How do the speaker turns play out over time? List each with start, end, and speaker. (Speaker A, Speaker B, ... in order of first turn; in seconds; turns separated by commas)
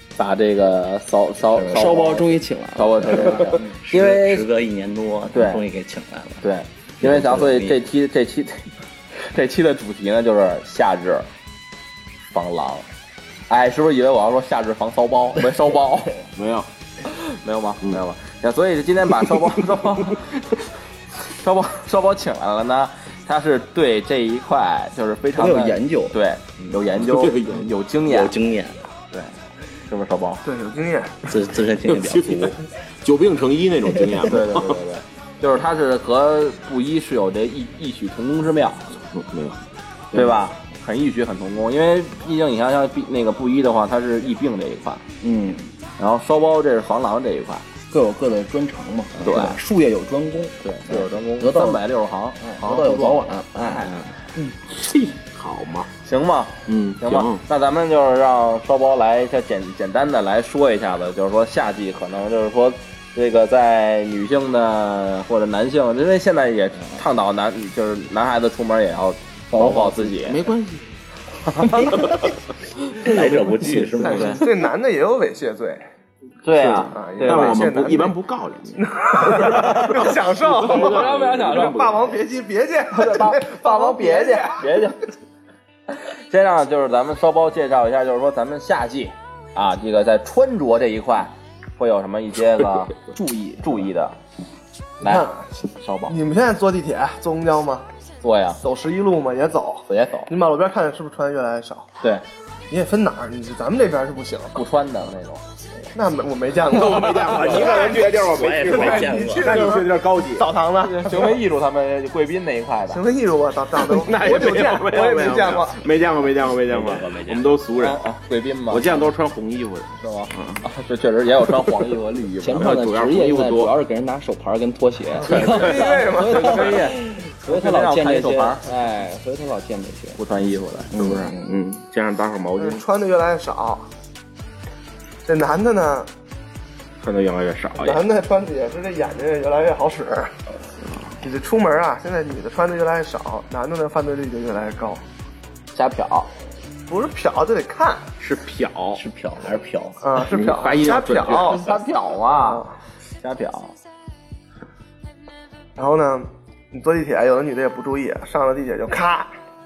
Speaker A: 0.2-4.5, Speaker B: 1.6-3.8, Speaker C: 3.8-6.4, Speaker A: 5.3-5.6, Speaker A: 6.4-8.6, Speaker C: 7.0-7.8, Speaker A: 9.2-11.3, Speaker A: 12.3-12.9, Speaker A: 13.5-16.2, Speaker D: 16.4-16.7, Speaker A: 17.0-20.6, Speaker A: 21.3-28.3, Speaker B: 25.4-26.2, Speaker D: 26.8-27.6, Speaker C: 28.0-28.8, Speaker A: 29.9-30.4, Speaker E: 30.4-31.2, Speaker C: 31.3-32.6, Speaker D: 31.9-34.8, Speaker A: 34.2-38.9, Speaker D: 39.0-39.6, Speaker B: 40.1-40.5, Speaker A: 40.1-45.0, Speaker B: 45.2-45.7, Speaker A: 46.0-47.7, Speaker B: 47.9-51.8, Speaker A: 49.2-49.6, Speaker A: 50.6-53.4, Speaker B: 52.4-54.5, Speaker D: 54.7-55.9, Speaker A: 56.0-70.5, Speaker D: 56.7-57.4, Speaker D: 69.5-70.9, Speaker A: 71.6-71.9, Speaker C: 73.0-74.5, Speaker E: 74.0-75.9, Speaker D: 74.0-74.3, Speaker A: 74.2-74.4, Speaker A: 76.5-77.7, Speaker E: 76.6-78.2, Speaker D: 77.2-82.0, Speaker E: 78.8-84.8, Speaker A: 79.5-80.0, Speaker A: 80.6-81.9, Speaker A: 82.9-85.0, Speaker A: 86.3-93.0, Speaker B: 93.1-93.9, Speaker A: 93.6-94.2, Speaker E: 95.0-95.5, Speaker A: 95.0-96.2, Speaker E: 96.1-97.9, Speaker A: 98.2-98.6, Speaker E: 98.6-101.9, Speaker A: 99.9-100.3, Speaker E: 102.7-104.6, Speaker A: 104.5-105.9, Speaker E: 106.0-111.4, Speaker D: 106.7-110.5, Speaker C: 107.5-109.7, Speaker A: 110.8-113.0, Speaker E: 112.9-115.8, Speaker D: 113.9-118.0, Speaker C: 116.7-117.5, Speaker A: 117.8-119.1, Speaker D: 118.7-120.6, Speaker A: 120.0-122.8, Speaker B: 122.4-130.2, Speaker D: 122.6-123.7, Speaker A: 125.2-128.6, Speaker E: 125.2-126.9, Speaker A: 130.2-131.2, Speaker B: 130.9-131.5, Speaker D: 131.0-132.8, Speaker E: 132.6-133.9, Speaker E: 135.2-136.1, Speaker D: 137.0-138.0, Speaker E: 137.8-140.3, Speaker E: 141.2-145.0, Speaker A: 145.7-146.3, Speaker E: 146.9-148.1, Speaker D: 148.2-149.0, Speaker C: 148.9-150.0, Speaker E: 150.0-151.6, Speaker D: 150.2-151.6, Speaker A: 151.3-152.7, Speaker E: 152.4-152.7, Speaker A: 153.2-153.7, Speaker E: 155.8-159.3